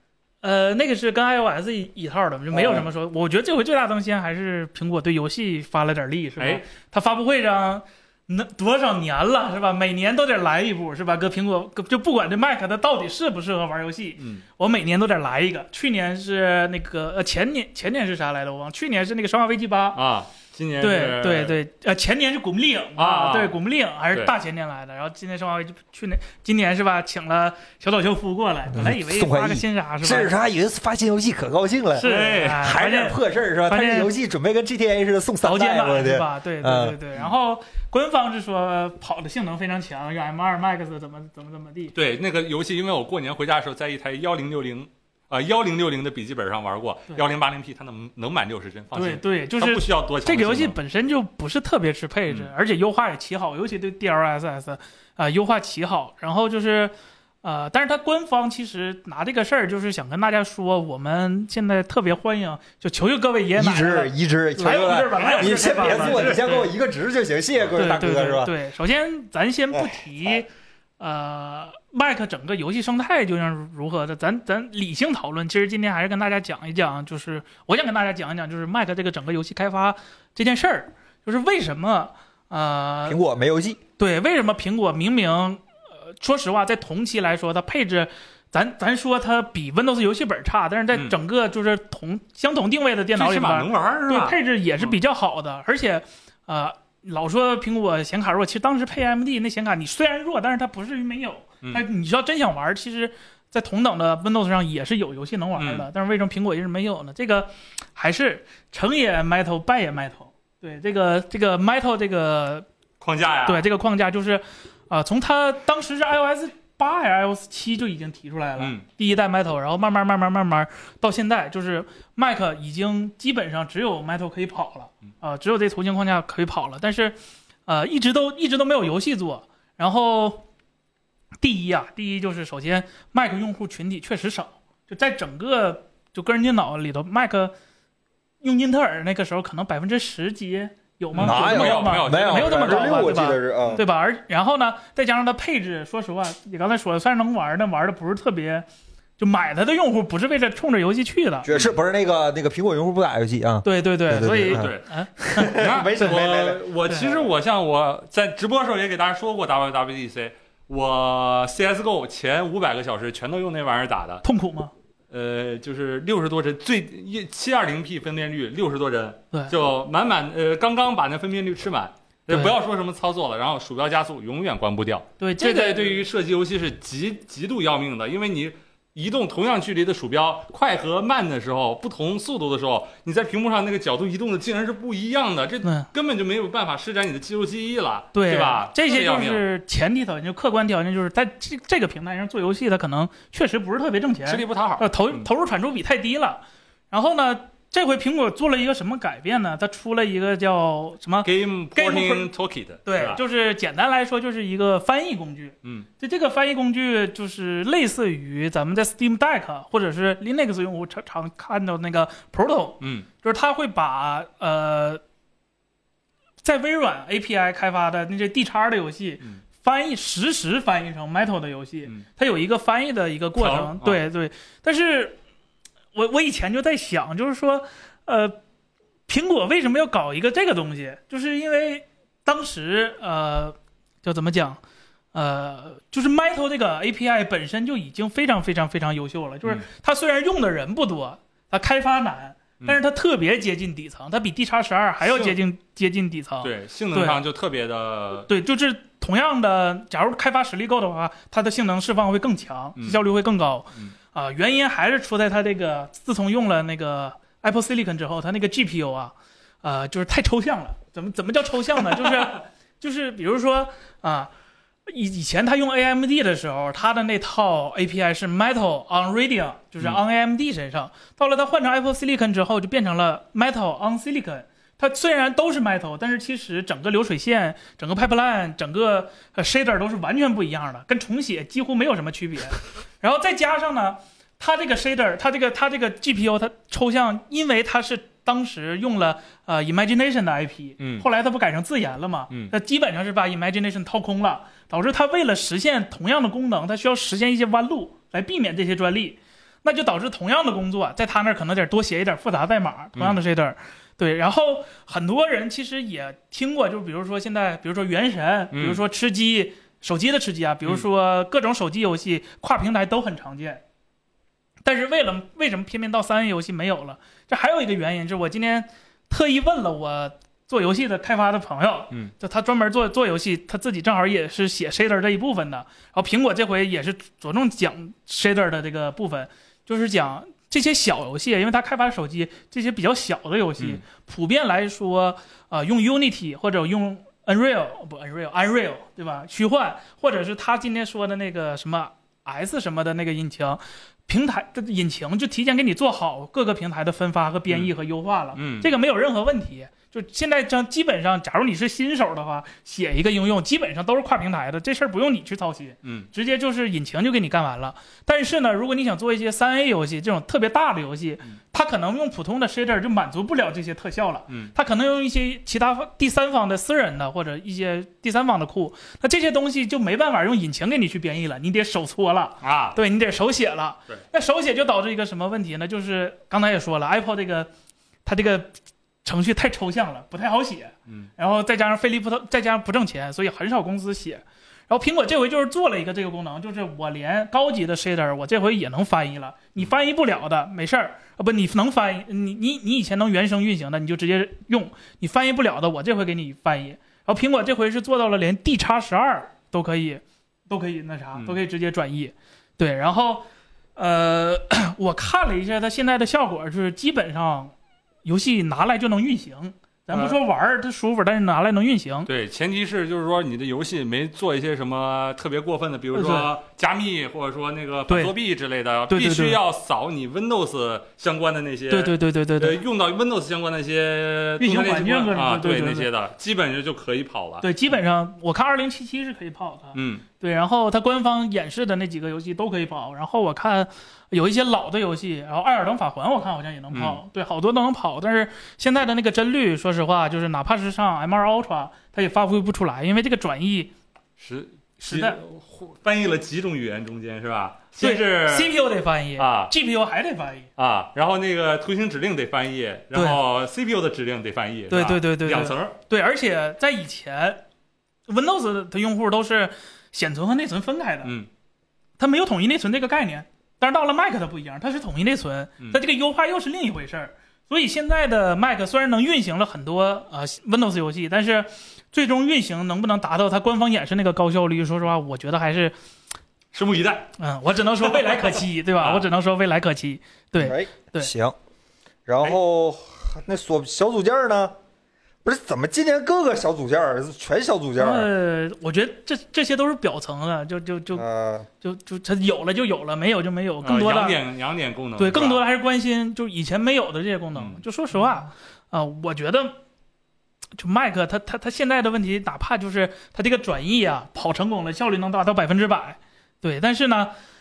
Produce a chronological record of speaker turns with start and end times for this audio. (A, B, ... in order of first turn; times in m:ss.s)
0:00.4-0:20.0 A
0:02.5-0:02.9 B
0:14.2-0:14.4 C
0:20.0-0:21.6 C
0:20.8-0:30.3 A
0:23.0-0:23.6 C
0:28.7-0:37.0 B
0:32.0-0:34.1 A
0:32.0-0:32.7 C
0:35.4-0:41.9 A
0:42.0-0:50.8 C
0:48.9-1:06.7 A
1:03.6-1:08.5 B
1:05.2-1:06.5 C
1:07.8-1:10.5 A
1:11.0-1:23.2 A
1:23.1-1:23.8 B
1:24.0-1:52.7 A
1:33.2-1:35.0 C
1:45.6-1:45.9 C
1:53.0-1:53.7 C
1:53.5-2:10.4 A
1:58.6-1:58.8 C
2:11.4-2:17.5 A
2:18.4-2:28.7 A
2:21.1-2:23.8 C
2:21.2-2:23.8 B
2:29.2-2:31.5 A
2:31.4-2:36.6 B
2:33.6-2:35.6 A
2:34.4-2:44.2 C
2:36.9-2:37.1 A
2:44.2-2:44.7 A
2:45.1-3:09.4 C
2:55.2-2:56.0 A
3:08.1-3:22.3 A
3:14.3-3:15.3 C
3:21.2-3:23.2 C
3:22.9-3:35.0 A
3:32.8-3:33.1 C
3:36.4-3:45.2 A
3:43.4-3:44.0 C
3:46.0-3:48.4 A
3:49.1-3:54.6 A
3:55.1-4:07.2 A
4:05.0-4:05.4 C
4:06.4-4:08.3 C
4:08.3-4:24.3 A
4:24.9-5:13.6 A
4:50.8-4:51.1 C
5:08.5-5:08.8 C
5:14.6-6:17.5 A
5:48.3-5:48.7 C
6:04.3-6:04.5 C
6:12.4-6:12.8 C
6:18.1-6:47.5 A
6:48.0-6:52.1 A
6:49.9-6:50.2 C
6:52.1-7:07.5 C
6:55.9-6:56.3 A
6:58.9-6:59.4 A
7:01.7-7:02.6 A
7:04.4-7:05.9 A
7:07.4-7:23.7 A
7:09.7-7:10.0 C
7:16.7-7:17.0 C
7:24.2-7:28.6 C
7:24.8-7:25.2 A
7:27.8-7:30.5 A
7:29.2-7:29.5 C
7:30.6-7:35.8 C
7:32.9-7:33.2 A
7:34.7-7:37.4 A
7:38.1-7:41.1 A
7:42.0-7:55.8 A
7:56.5-7:57.1 C
7:57.2-8:01.1 A
7:57.8-7:58.2 C
7:58.8-7:59.1 C
8:00.4-8:01.4 B
8:02.1-8:04.5 B
8:05.2-8:08.1 B
8:07.8-8:11.0 A
8:11.0-8:11.5 B
8:11.6-8:14.2 A
8:13.6-8:15.4 C
8:15.0-8:19.6 A
8:17.4-8:17.6 C
8:20.6-8:27.1 A